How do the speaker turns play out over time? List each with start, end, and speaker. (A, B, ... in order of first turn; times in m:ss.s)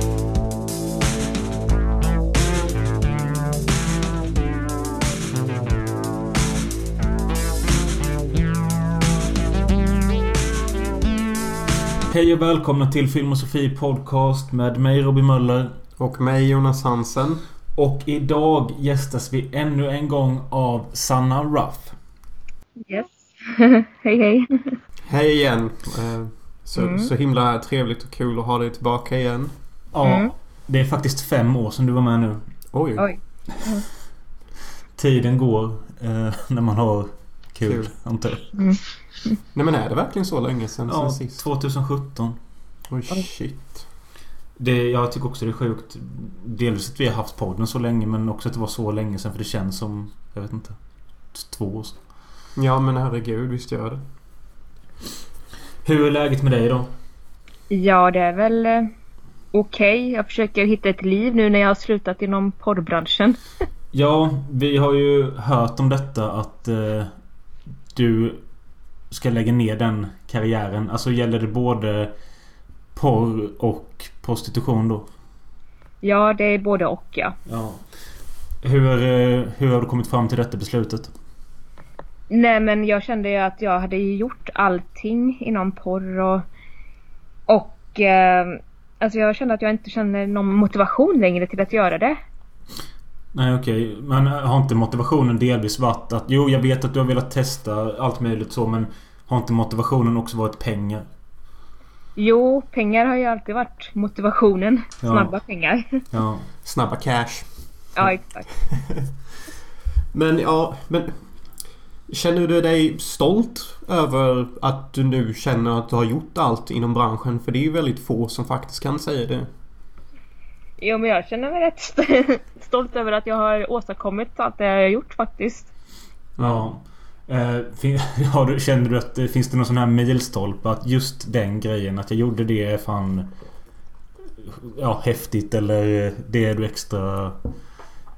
0:12.1-0:15.7 A
0:16.0-0:17.4 B
0:17.8-0:22.0 A
0:22.8-0:24.8 C
0:25.0-0:29.5 B
0:26.8-0:27.1 C
0:29.9-0:32.4 A
0:30.0-0:30.3 C
0:32.7-0:33.1 B
0:33.0-0:33.8 C
0:35.0-0:38.5 A
0:37.6-0:37.9 B
0:38.6-0:38.8 C
0:39.5-0:41.4 B
0:40.9-0:42.4 A
0:42.9-0:43.8 B
0:44.6-0:50.8 A
0:51.3-0:52.0 A
0:52.6-0:54.0 B
0:55.8-0:56.9 A
0:57.7-0:58.9 C
0:59.5-1:03.4 C
1:03.9-1:07.1 A
1:07.9-1:08.4 A
1:09.1-1:12.1 A
1:12.9-1:15.1 A
1:16.0-1:17.4 C
1:17.5-1:17.8 A
1:18.6-1:21.1 A
1:22.3-1:26.4 C
1:27.5-1:32.2 C
1:33.3-1:41.1 A
1:42.2-1:46.0 C
1:45.0-1:45.3 A
1:46.1-1:46.5 A
1:46.6-1:47.5 B
1:48.0-1:48.5 C
1:48.7-1:49.1 B
1:50.1-1:51.2 B
1:52.1-1:59.5 B
2:00.8-2:05.7 C
2:06.4-2:06.7 B
2:06.4-2:13.3 A
2:14.4-2:17.4 A